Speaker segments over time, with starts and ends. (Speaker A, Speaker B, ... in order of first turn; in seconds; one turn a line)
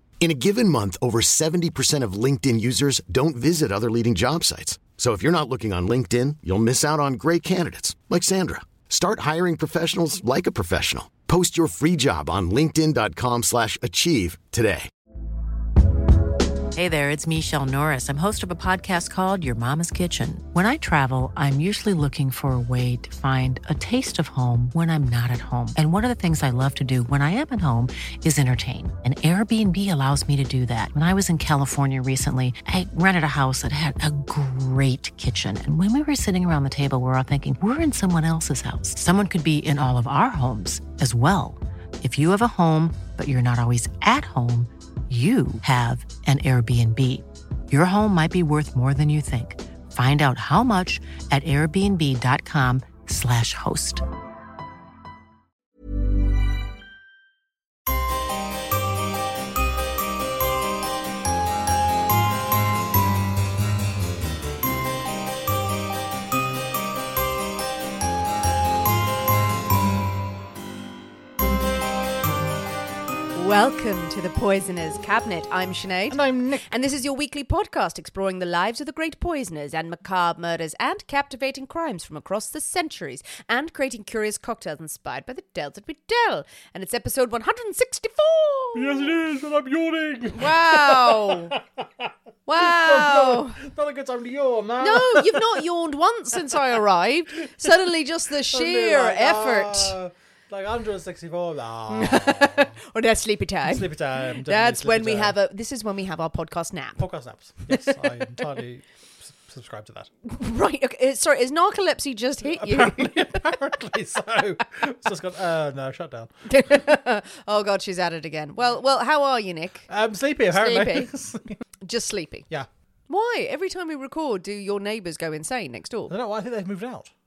Speaker A: 0.2-14.9
Speaker B: 16.7-54.0
Speaker C: 73.3-89.1
Speaker D: 76.1-76.7
Speaker D: 88.7-95.6
Speaker C: 90.3-91.6
Speaker C: 92.5-93.6
Speaker C: 94.8-100.0
Speaker D: 97.4-97.7
Speaker D: 98.5-102.8
Speaker C: 101.9-107.0
Speaker D: 103.7-105.4
Speaker D: 107.0-110.1
Speaker C: 107.7-108.1
Speaker C: 110.2-113.5
Speaker D: 112.4-116.3
Speaker C: 116.5-119.9
Speaker D: 119.9-121.6
Speaker C: 120.5-121.1
Speaker C: 121.8-122.5
Speaker C: 123.1-126.1
Speaker D: 126.1-127.1